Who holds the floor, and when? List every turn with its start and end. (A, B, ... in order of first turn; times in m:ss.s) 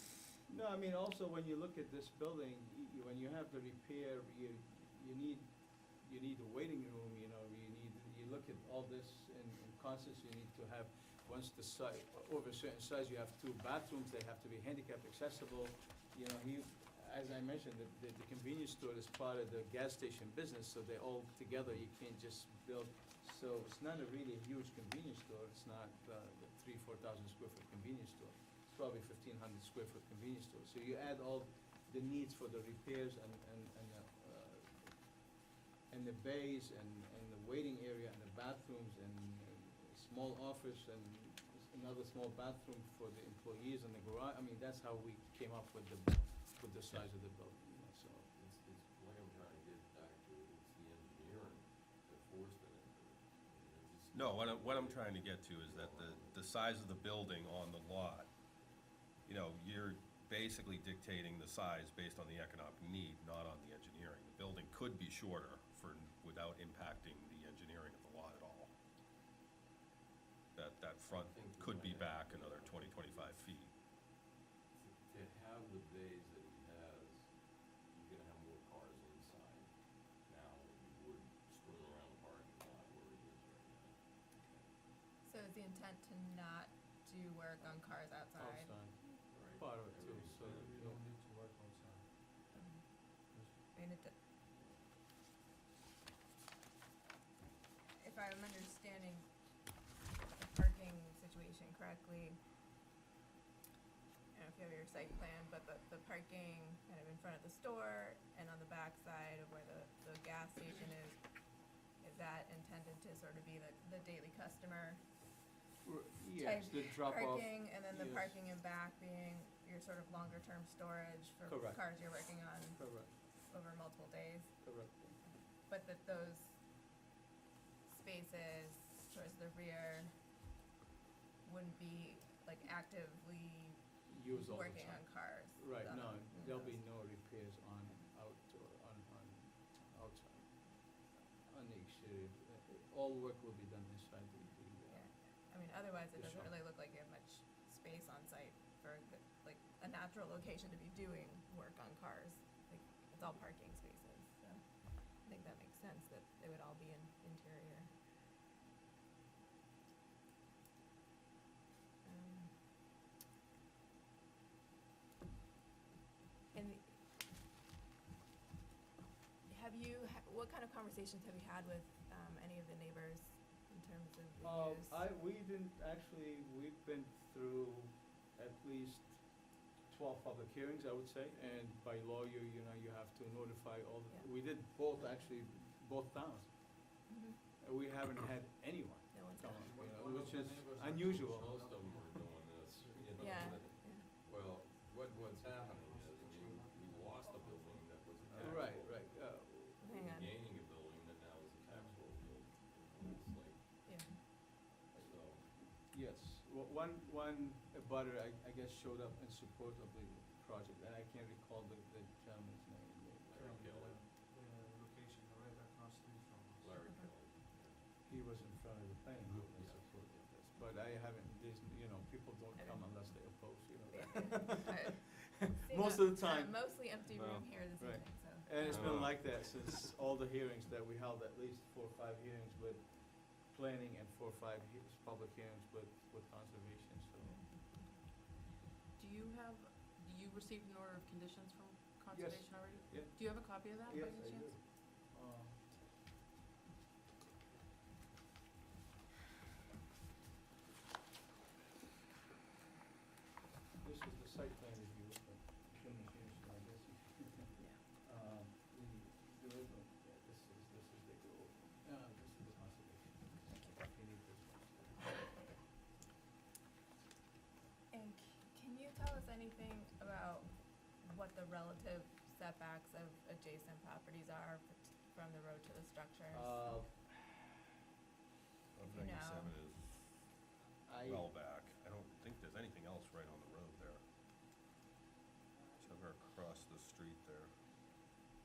0:00.5-0:35.3 A
0:35.9-0:48.3 A
0:48.3-0:56.5 B
0:54.1-0:58.3 C
0:59.2-1:08.7 C
1:10.6-1:13.7 C
1:11.1-1:13.6 B
1:14.7-1:24.7 B
1:25.2-1:29.2 D
1:28.4-1:31.0 A
1:29.3-1:30.7 B
1:30.5-1:32.1 E
1:32.5-1:33.0 D
1:33.7-1:34.1 D
1:34.5-1:34.8 B
1:37.9-1:39.3 D
1:40.3-1:42.4 D
1:44.3-1:51.2 D
1:52.0-1:55.0 D
1:55.8-1:58.4 A
1:56.4-2:04.5 D
2:01.4-2:01.8 A
2:02.7-2:03.1 A
2:04.6-2:05.2 A
2:05.7-2:06.6 D
2:07.8-2:10.1 D
2:11.4-2:16.8 D
2:14.0-2:25.1 A
2:24.9-2:37.9 D
2:26.1-2:26.5 A
2:42.0-2:42.6 D
2:46.5-2:47.0 D
2:49.4-2:55.0 D
2:54.4-3:06.8 A
3:07.1-3:07.4 D
3:07.6-3:11.5 A
3:09.1-3:09.6 D
3:09.6-3:13.7 E
3:09.9-3:23.8 B
3:13.2-3:14.1 D
3:15.1-3:18.7 E
3:18.3-3:20.0 A
3:19.8-3:20.3 D
3:21.7-3:22.0 E
3:23.8-3:24.1 D
3:24.9-3:25.5 B
3:24.9-3:33.3 A
3:33.2-3:34.0 B
3:33.4-3:36.7 E
3:36.6-3:37.8 B
3:36.8-3:37.1 D
3:38.0-3:46.9 A
3:39.3-3:40.3 B
3:42.5-3:43.0 D
3:43.9-3:49.0 D
3:47.8-3:57.4 A
3:48.7-3:49.3 C
3:59.0-4:04.6 F
4:02.1-4:05.6 A
4:13.8-4:25.4 A
4:27.9-4:36.8 D
4:36.3-4:37.6 A
4:38.7-4:40.2 C
4:38.8-4:39.6 D
4:40.8-4:41.3 A
4:41.0-4:44.0 C
4:45.8-4:47.5 C